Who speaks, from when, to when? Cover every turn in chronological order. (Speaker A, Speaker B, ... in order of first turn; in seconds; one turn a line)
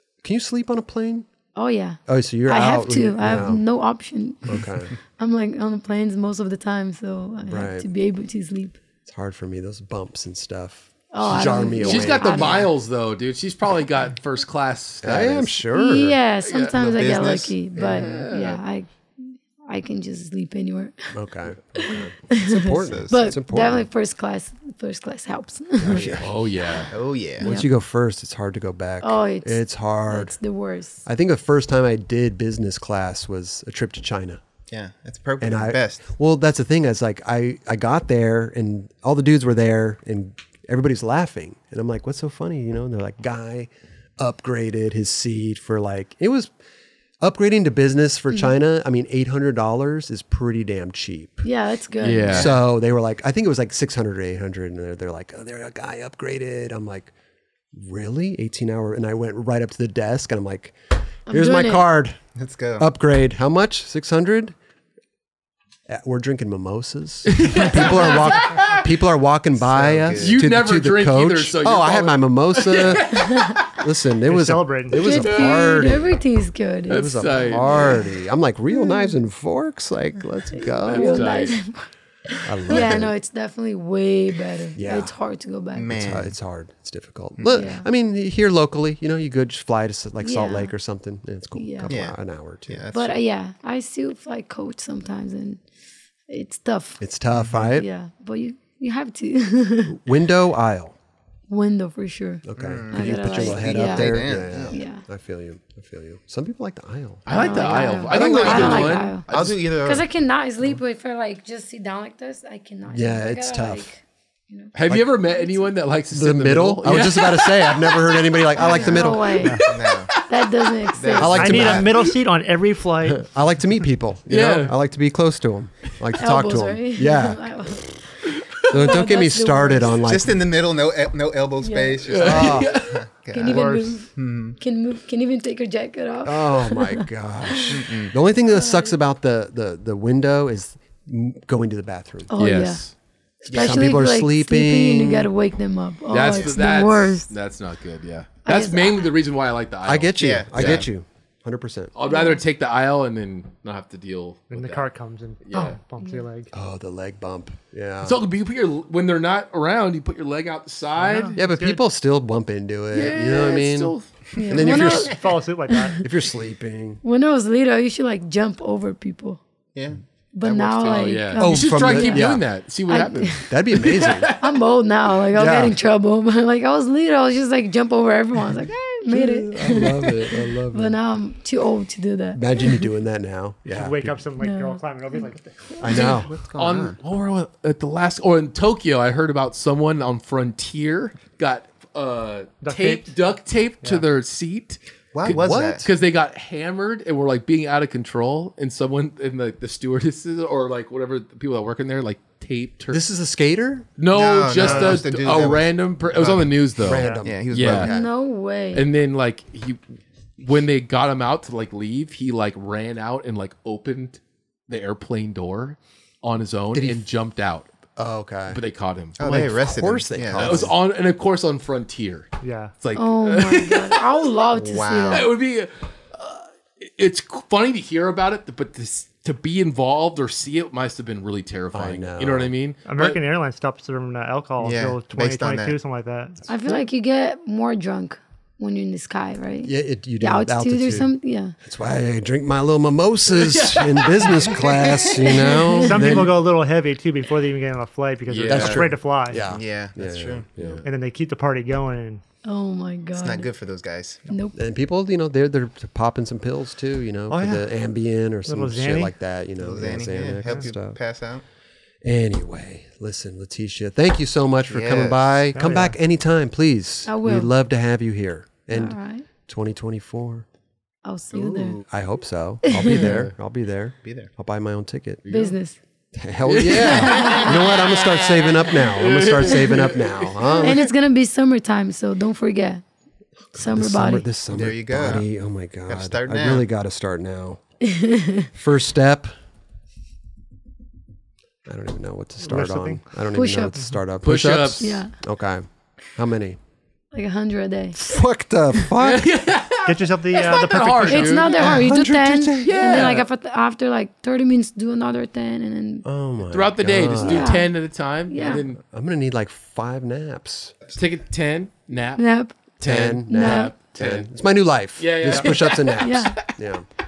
Speaker A: 0.2-1.2
Speaker B: 1.5-8.8
Speaker A: 2.1-3.6
Speaker A: 4.4-5.0
Speaker A: 7.5-7.9
Speaker A: 9.1-12.6
Speaker B: 11.1-12.7
Speaker C: 11.8-15.6
Speaker A: 15.0-16.2
Speaker B: 15.7-21.1
Speaker C: 16.4-16.7
Speaker D: 16.7-17.5
Speaker C: 17.8-18.6
Speaker A: 17.8-18.1
Speaker A: 21.1-23.9
Speaker B: 21.7-26.2
Speaker D: 22.8-23.1
Speaker A: 25.8-30.3
Speaker C: 25.9-26.9
Speaker D: 26.9-27.5
Speaker B: 27.4-27.7
Speaker B: 29.0-31.1
Speaker A: 31.0-34.4
Speaker D: 34.7-36.0
Speaker A: 35.4-46.5
Speaker A: 47.2-51.5
Speaker B: 51.4-52.4
Speaker C: 52.0-52.5
Speaker D: 52.3-52.5
Speaker A: 52.3-57.1
Speaker A: 57.7-62.2
Speaker B: 61.3-61.9
Speaker D: 62.3-62.9
Speaker A: 62.8-64.5
Speaker A: 65.9-76.1
Speaker C: 67.3-68.9
Speaker D: 69.6-70.3
Speaker C: 70.2-73.8
Speaker B: 73.1-73.6
Speaker E: 74.3-75.1
Speaker B: 74.9-77.9
Speaker C: 75.0-76.0
Speaker A: 76.9-81.3
Speaker C: 76.9-78.0
Speaker B: 78.7-79.1
Speaker B: 80.5-85.9
Speaker C: 80.9-81.6
Speaker A: 82.4-83.1
Speaker A: 84.7-85.2
Speaker D: 85.7-86.3
Speaker A: 85.9-92.9
Speaker D: 87.4-87.7
Speaker B: 87.5-87.9
Speaker B: 90.2-90.7
Speaker B: 91.5-91.9
Speaker D: 91.9-92.2
Speaker D: 92.7-93.2
Speaker B: 92.9-95.6
Speaker B: 96.3-97.0
Speaker A: 97.0-97.9
Speaker D: 97.3-97.6
Speaker B: 97.7-100.1
Speaker A: 99.9-101.0
Speaker B: 101.5-105.0
Speaker A: 102.4-109.0
Speaker D: 102.6-104.8
Speaker C: 107.2-109.6
Speaker B: 107.3-115.7
Speaker D: 108.3-110.0
Speaker A: 112.9-113.9
Speaker C: 114.7-120.5
Speaker A: 114.8-115.2
Speaker A: 116.1-119.5
Speaker B: 118.5-121.8
Speaker E: 119.4-119.7
Speaker D: 119.6-120.1
Speaker D: 120.9-121.8
Speaker A: 121.2-122.0
Speaker E: 121.2-123.3
Speaker A: 123.0-128.0
Speaker C: 124.3-124.7
Speaker B: 126.2-128.0
Speaker C: 128.2-128.7
Speaker A: 128.6-130.4
Speaker B: 128.7-130.0
Speaker D: 130.0-134.6
Speaker B: 131.6-132.1
Speaker C: 132.1-133.0
Speaker A: 132.2-132.7
Speaker B: 133.3-137.9
Speaker E: 133.4-133.9
Speaker A: 136.2-142.3
Speaker D: 137.7-138.1
Speaker B: 138.5-138.9
Speaker B: 142.3-142.8
Speaker C: 142.3-142.9
Speaker D: 143.4-143.9
Speaker A: 143.4-145.3
Speaker B: 143.5-147.3
Speaker C: 146.1-150.8
Speaker B: 148.4-149.1
Speaker A: 149.8-151.9
Speaker D: 150.2-150.9
Speaker C: 151.9-154.9
Speaker B: 152.1-152.4
Speaker E: 154.5-156.5
Speaker C: 155.4-155.8
Speaker B: 155.5-156.2
Speaker A: 156.5-158.2
Speaker C: 158.0-161.4
Speaker E: 161.0-161.8
Speaker A: 161.3-165.2
Speaker C: 162.9-164.3
Speaker B: 164.3-166.0
Speaker E: 164.6-166.0
Speaker A: 166.0-167.0
Speaker B: 167.0-169.4
Speaker D: 169.7-171.2
Speaker B: 170.3-172.4
Speaker C: 170.8-174.6
Speaker A: 171.4-172.5
Speaker B: 172.9-182.8
Speaker A: 173.4-174.3
Speaker A: 175.3-175.8
Speaker A: 179.1-181.0
Speaker A: 182.3-184.2
Speaker E: 183.6-185.9
Speaker B: 184.4-186.2
Speaker A: 185.8-186.3
Speaker D: 185.9-187.0
Speaker C: 186.1-203.0
Speaker E: 192.6-193.1
Speaker D: 195.1-195.8
Speaker A: 195.2-195.8
Speaker A: 202.9-203.9
Speaker C: 204.0-207.9
Speaker D: 204.1-206.5
Speaker E: 204.6-204.9
Speaker A: 205.0-205.6
Speaker A: 206.2-208.1
Speaker E: 206.9-207.2
Speaker D: 207.2-208.0
Speaker B: 207.8-208.9
Speaker C: 208.7-209.8
Speaker C: 210.4-217.7
Speaker A: 216.7-217.0
Speaker A: 217.9-218.6
Speaker C: 218.5-219.2
Speaker D: 219.2-220.7
Speaker A: 219.2-220.7
Speaker C: 220.3-224.3
Speaker E: 222.4-222.7
Speaker B: 222.9-225.3
Speaker D: 224.6-225.3
Speaker C: 225.1-233.2
Speaker A: 231.7-232.5
Speaker E: 232.8-236.5
Speaker D: 234.6-235.8
Speaker B: 236.5-241.5
Speaker A: 239.6-246.4
Speaker C: 243.3-245.5
Speaker B: 245.0-246.2
Speaker E: 245.8-249.5
Speaker C: 248.3-248.9
Speaker A: 248.5-250.8
Speaker D: 248.5-248.8
Speaker D: 249.4-250.5
Speaker C: 250.6-250.8
Speaker E: 250.8-252.2
Speaker B: 252.4-253.5
Speaker D: 253.1-254.2
Speaker B: 254.3-254.6
Speaker A: 254.5-261.0
Speaker E: 257.3-257.6
Speaker E: 258.4-259.1
Speaker D: 259.6-261.4
Speaker A: 262.0-270.4
Speaker D: 264.6-265.5
Speaker E: 265.5-265.9
Speaker B: 267.1-267.5
Speaker B: 268.7-269.2
Speaker B: 271.0-271.8
Speaker A: 271.3-275.2
Speaker B: 272.6-273.1
Speaker C: 272.7-273.3
Speaker D: 274.0-274.3
Speaker C: 275.2-275.5
Speaker B: 275.3-275.8
Speaker A: 276.1-280.9
Speaker C: 276.4-280.6
Speaker B: 276.8-277.7
Speaker B: 280.6-282.8
Speaker B: 283.5-284.3
Speaker A: 283.5-287.6
Speaker D: 284.5-285.3
Speaker D: 285.9-286.6
Speaker B: 287.8-288.5
Speaker A: 288.5-289.3
Speaker A: 291.6-296.6
Speaker E: 292.4-293.0
Speaker B: 293.3-293.8
Speaker C: 294.2-295.0
Speaker B: 294.8-295.1
Speaker B: 297.1-298.1
Speaker A: 297.9-299.3
Speaker C: 299.0-301.8
Speaker E: 299.8-301.6
Speaker B: 301.0-306.1
Speaker A: 301.6-303.2
Speaker C: 302.6-303.2
Speaker A: 306.0-307.6
Speaker C: 306.5-308.8
Speaker B: 307.2-307.7
Speaker B: 308.3-308.6
Speaker A: 308.4-310.7
Speaker C: 310.9-312.2
Speaker B: 312.2-312.6
Speaker C: 312.8-314.3
Speaker A: 312.8-316.9
Speaker B: 313.3-313.7
Speaker C: 315.0-316.3
Speaker B: 315.9-316.4